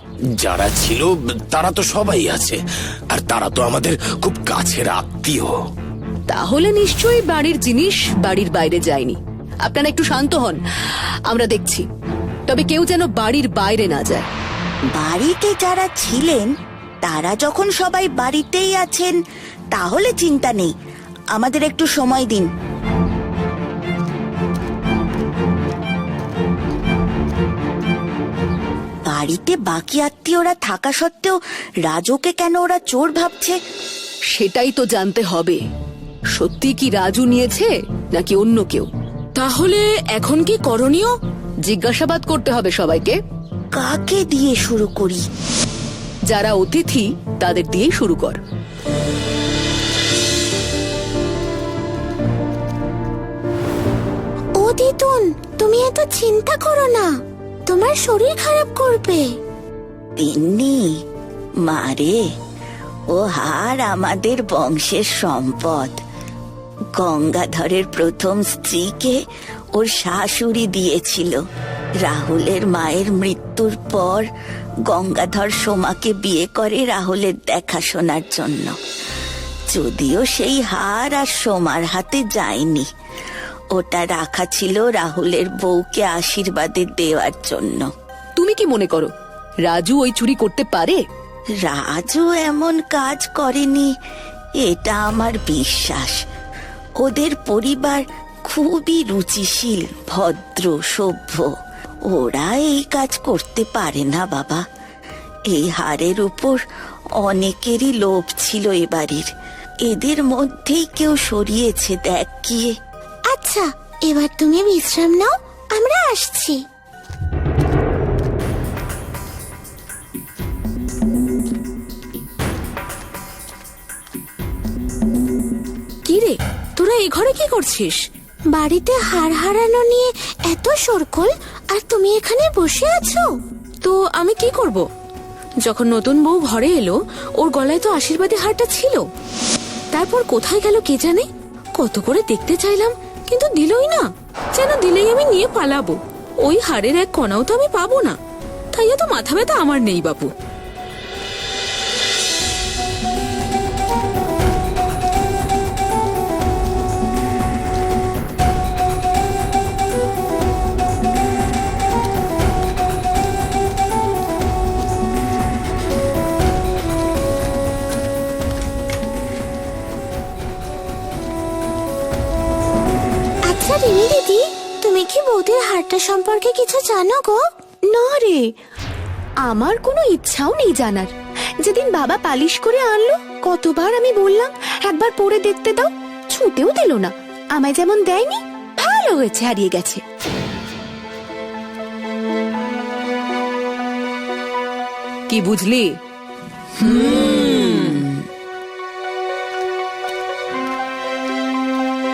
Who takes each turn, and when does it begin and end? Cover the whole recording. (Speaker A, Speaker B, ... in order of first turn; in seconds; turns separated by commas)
Speaker A: 0.4-5.5, Speaker B: 6.3-10.6, Speaker B: 11.3-11.8, Speaker B: 12.5-14.2, Speaker C: 14.9-16.5, Speaker C: 17.0-19.1, Speaker C: 19.7-20.7, Speaker C: 21.3-22.5, Speaker C: 29.1-33.6, Speaker B: 34.3-35.6, Speaker B: 36.3-38.9, Speaker D: 39.4-41.1, Speaker B: 41.6-43.2, Speaker C: 43.7-45.2, Speaker B: 46.3-48.4, Speaker E: 54.6-57.1, Speaker E: 57.7-59.3, Speaker C: 60.2-61.0, Speaker C: 61.6-62.2, Speaker C: 63.1-66.0, Speaker C: 67.0-69.2, Speaker C: 69.7-71.4, Speaker C: 72.0-74.3, Speaker C: 74.9-78.8, Speaker C: 79.7-82.9, Speaker C: 83.7-87.9, Speaker B: 88.4-89.1, Speaker B: 89.7-91.0, Speaker C: 91.6-93.9, Speaker C: 94.6-96.2, Speaker C: 97.0-101.5, Speaker C: 102.1-104.6, Speaker C: 105.5-106.6, Speaker C: 107.2-109.3, Speaker C: 109.8-112.7, Speaker E: 113.3-116.6, Speaker D: 126.0-128.0, Speaker E: 128.5-133.2, Speaker D: 133.8-134.8, Speaker D: 135.6-139.0, Speaker D: 139.9-141.2, Speaker D: 141.8-148.2, Speaker D: 148.7-150.3, Speaker E: 173.5-177.4, Speaker B: 177.9-178.5, Speaker B: 179.4-190.0, Speaker B: 195.3-195.9, Speaker D: 196.8-198.0, Speaker C: 196.8-198.1